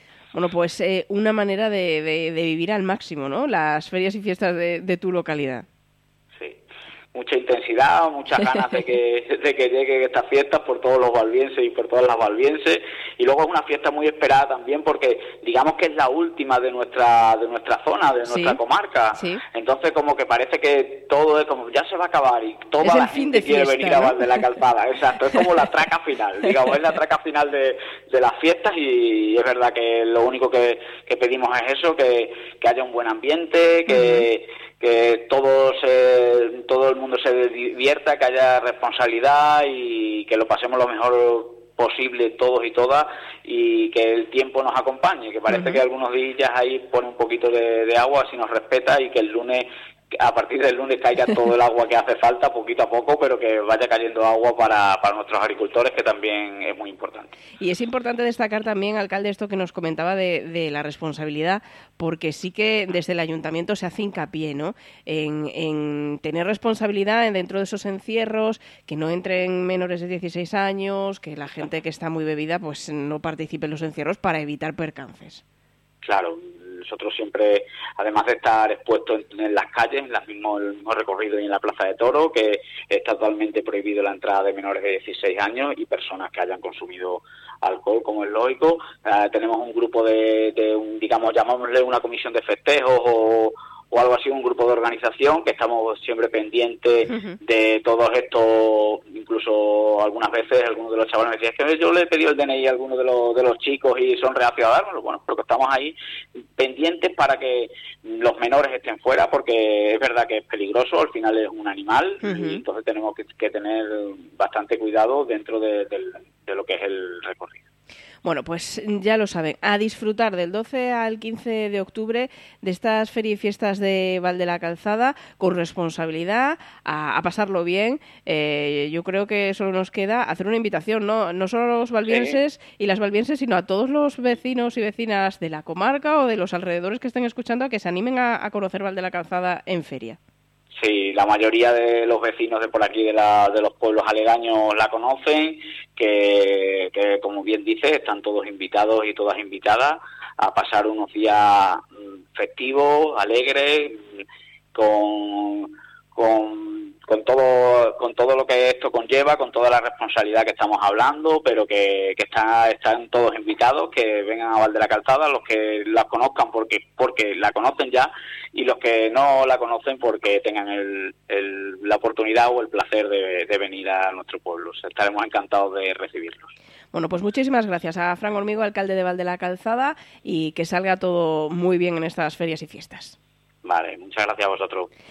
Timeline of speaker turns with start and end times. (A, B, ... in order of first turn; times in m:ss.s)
0:00.3-0:05.6 A
0:07.1-0:57.3 B
0:18.3-0:18.6 A
0:19.1-0:19.4 A
0:22.8-0:24.4 A
0:33.9-0:34.3 A
0:45.5-0:45.8 A
0:57.6-1:15.4 A
1:16.0-1:46.0 B
1:37.1-1:37.4 A
1:46.6-1:57.6 B
1:52.2-1:52.6 A
1:58.2-2:20.2 A
2:12.1-2:12.4 B
2:20.8-2:34.2 B
2:34.7-2:56.5 B
2:56.9-3:03.2 A
3:03.6-3:04.9 B